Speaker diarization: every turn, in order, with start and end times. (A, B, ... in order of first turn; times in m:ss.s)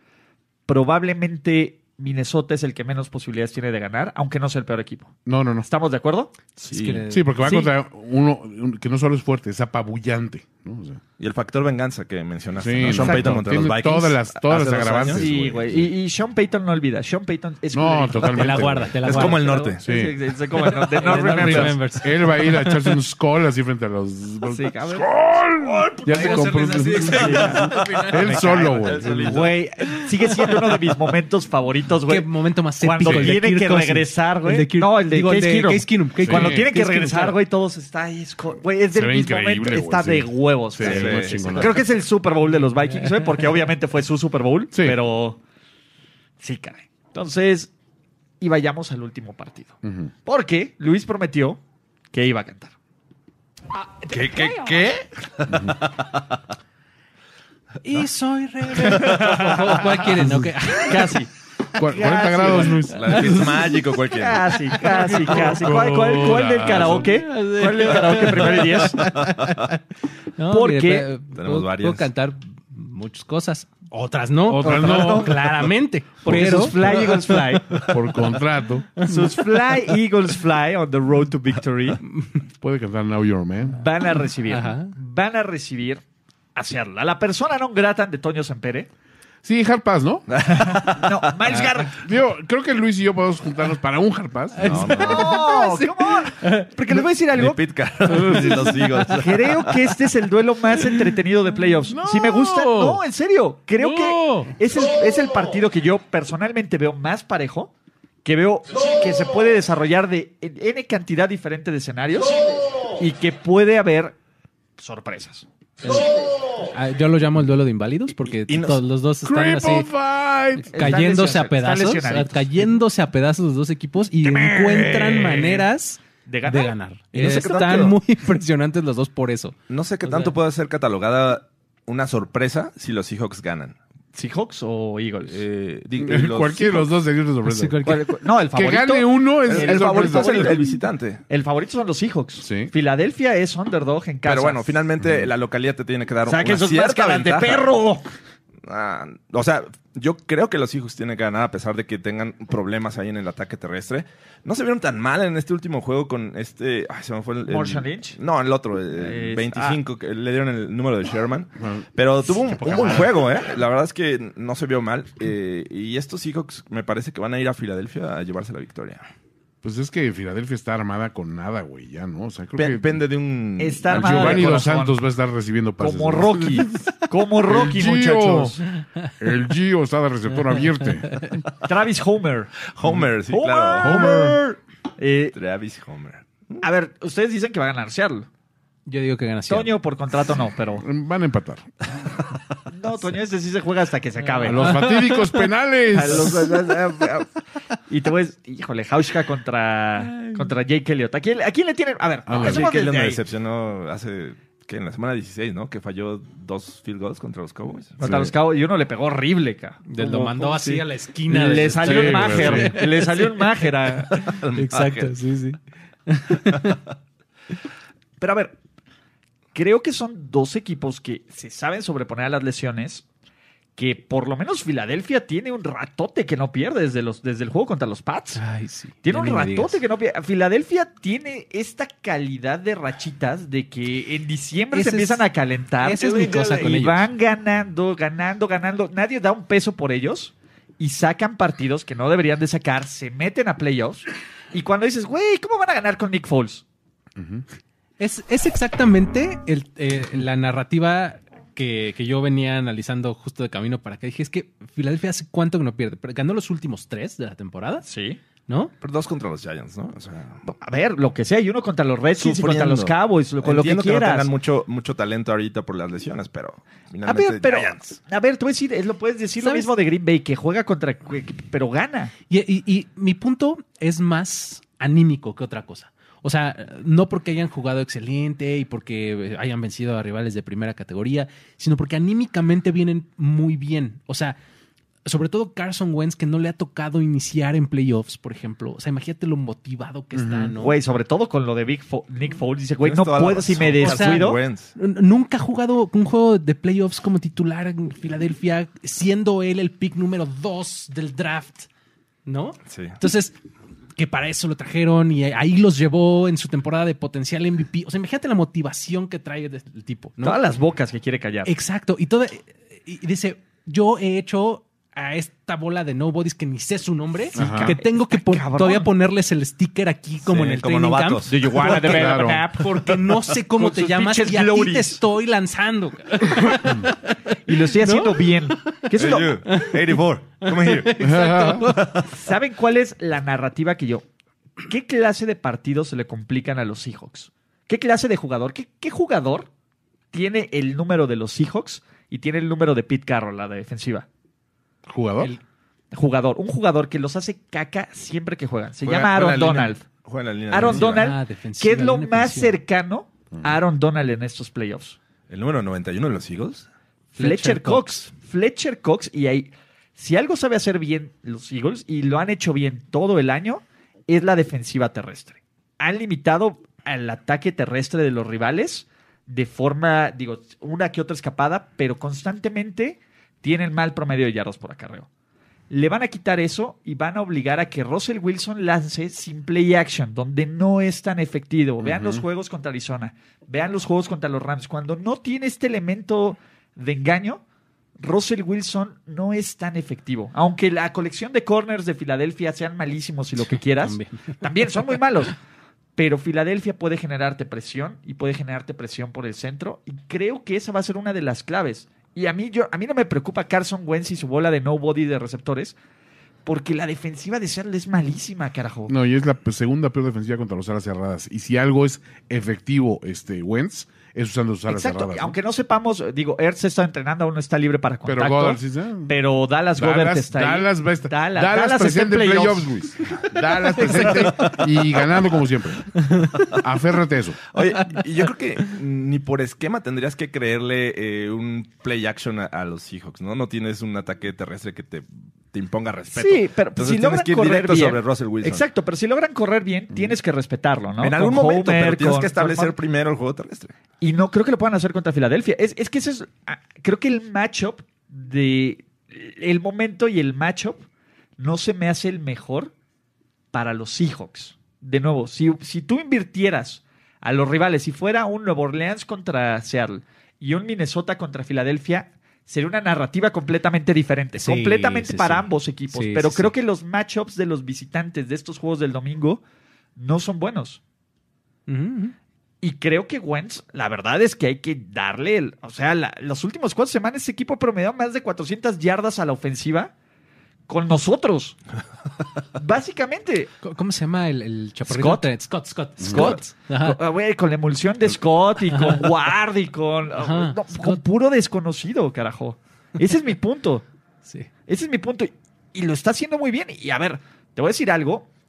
0:00.7-0:05.1 A
0:05.3-0:05.7 B
0:05.6-0:06.4 A
0:06.6-0:07.0 C
0:06.7-0:07.6 D
0:07.1-0:11.0 B
0:11.2-0:15.3 C
0:12.6-0:15.9 B
0:12.9-0:13.4 A
0:15.1-0:21.8 A
0:17.7-0:19.0 B
0:18.3-0:19.7 D
0:19.0-0:19.8 C
0:19.8-0:20.2 B
0:20.7-0:23.0 D
0:21.2-0:29.5 B
0:24.5-0:25.1 A
0:26.0-0:32.3 A
0:26.0-0:28.5 D
0:27.3-0:29.6 C
0:32.1-0:37.4 D
0:32.8-0:45.4 A
0:33.0-0:33.4 B
0:36.2-0:36.7 B
0:38.9-0:41.8 B
0:40.8-0:41.8 C
0:44.7-0:45.0 B
0:46.4-0:47.7 A
0:48.4-0:51.6 A
0:49.8-0:50.1 B
0:52.1-0:52.7 A
0:53.8-0:54.7 A
0:54.1-0:56.4 C
0:57.8-1:01.2 D
0:59.0-0:59.9 A
1:00.2-1:00.6 B
1:00.8-1:02.9 A
1:01.8-1:03.6 B
1:02.9-1:04.4 C
1:03.1-1:03.7 D
1:04.1-1:09.0 A
1:04.9-1:07.2 B
1:07.0-1:09.8 D
1:09.2-1:09.6 C
1:10.4-1:17.9 D
1:10.5-1:11.1 A
1:11.3-1:12.1 C
1:14.5-1:15.6 B
1:14.6-1:17.8 A
1:16.2-1:19.0 B
1:19.0-1:19.8 D
1:19.0-1:22.0 A
1:22.6-1:23.8 B
1:23.7-1:26.0 A
1:24.5-1:24.9 D
1:26.6-1:28.9 A
1:29.4-1:30.2 B
1:30.3-1:31.2 C
1:30.6-1:32.0 A
1:31.5-1:31.8 D
1:32.0-1:35.2 B
1:34.6-1:36.7 D
1:34.6-1:35.4 C
1:35.0-1:37.6 A
1:37.3-1:39.7 C
1:38.2-1:38.6 D
1:39.1-1:47.7 A
1:41.9-1:43.0 B
1:43.8-1:44.5 D
1:48.2-1:54.2 A
1:54.8-1:55.5 A
1:55.8-1:59.9 D
1:58.3-1:58.8 C
1:59.2-2:00.8 B
2:00.6-2:10.4 D
2:00.7-2:02.8 A
2:04.5-2:05.6 A
2:06.3-2:06.8 A
2:07.1-2:08.0 C
2:09.7-2:13.8 C
2:14.1-2:15.4 A
2:15.3-2:16.9 C
2:16.0-2:17.8 B
2:17.4-2:18.1 D
2:17.8-2:20.8 A
2:18.5-2:20.6 B
2:19.5-2:21.2 C
2:21.3-2:24.7 A
2:22.4-2:22.7 B
2:24.2-2:27.8 C
2:25.0-2:25.3 B
2:26.3-2:28.0 A
2:28.6-2:49.1 C
2:37.5-2:38.2 A
2:39.0-2:39.8 A
2:41.6-2:41.9 B
2:42.7-2:42.9 B
2:42.7-2:43.0 A
2:49.6-2:53.0 B
2:52.6-2:54.6 C
2:53.6-2:55.0 A
2:53.9-2:58.6 B
2:55.8-2:58.6 A
2:59.2-3:01.3 B
3:01.1-3:01.4 D
3:01.6-3:02.6 A
3:02.7-3:04.1 C
3:03.3-3:05.4 A
3:03.8-3:04.4 B
3:05.4-3:06.6 C
3:06.6-3:08.3 A
3:08.9-3:09.7 D
3:09.5-3:10.8 A
3:10.8-3:11.7 B
3:12.7-3:14.8 A
3:14.4-3:16.5 B
3:14.5-3:15.5 D
3:15.9-3:17.3 A
3:17.9-3:23.2 A
3:20.1-3:20.5 D
3:22.3-3:22.7 B
3:22.4-3:28.2 C
3:28.0-3:34.1 A
3:28.0-3:28.3 B
3:29.9-3:33.5 D
3:31.8-3:32.8 B
3:34.1-3:36.8 D
3:34.2-3:35.1 C
3:38.2-3:38.6 A
3:39.6-3:43.0 A
3:43.8-3:48.4 A
3:48.4-3:49.8 D
3:49.0-4:06.6 A
3:54.7-3:55.3 D
3:55.8-3:57.1 D
4:07.2-4:07.4 B
4:08.0-4:17.8 D
4:17.8-4:18.2 A
4:18.5-4:18.7 D
4:18.8-4:20.4 C
4:20.5-4:24.3 A
4:22.2-4:27.9 C
4:27.0-4:32.1 A
4:29.4-4:29.7 D
4:32.3-4:44.4 D
4:45.1-4:50.8 D
4:50.1-4:50.6 B
4:50.6-4:54.4 A
4:52.8-4:54.7 C
4:53.8-5:01.7 D
5:02.3-5:03.4 D
5:02.7-5:03.0 C
5:04.0-5:10.4 D
5:10.2-5:11.5 A
5:11.5-5:27.2 D
5:17.3-5:18.9 A
5:17.4-5:17.8 B
5:20.2-5:21.7 C
5:21.3-5:25.0 A
5:21.7-5:22.5 B
5:27.5-5:29.4 A
5:27.8-5:28.9 D
5:29.0-5:31.1 C
5:29.5-5:32.0 D
5:31.0-5:31.7 B
5:31.7-5:32.1 C
5:32.1-5:34.0 A
5:34.6-5:39.5 A
5:40.1-5:44.1 A
5:44.9-5:45.3 B
5:45.9-5:49.8 A
5:48.8-5:51.1 C
5:50.5-5:55.0 A
5:50.7-5:52.6 D
5:55.3-5:56.7 C
5:57.2-5:58.0 D
5:57.2-6:15.1 A
6:15.7-6:27.4 A
6:21.8-6:22.2 B
6:28.0-6:35.4 A
6:33.5-6:34.4 D
6:36.0-6:45.8 A
6:46.5-6:48.9 A
6:48.9-6:55.4 B
6:54.7-7:02.8 A
6:58.1-6:59.2 B
6:59.8-7:07.4 B
7:03.8-7:04.2 A
7:06.0-7:06.4 D
7:07.5-7:18.6 C
7:07.8-7:08.0 D
7:16.1-7:22.8 A
7:21.0-7:23.8 C
7:24.0-7:30.8 A
7:31.4-7:32.7 A
7:33.5-7:49.4 A
7:44.4-7:46.5 D
7:50.0-7:50.8 A
7:51.7-7:52.2 D
7:52.6-7:59.9 A
8:00.7-8:01.6 A
8:02.6-8:03.5 A
8:03.6-8:07.0 D
8:04.9-8:05.3 A
8:06.0-8:06.4 B
8:06.0-8:13.8 A
8:08.7-8:09.1 D
8:10.2-8:11.0 D
8:14.7-8:18.3 A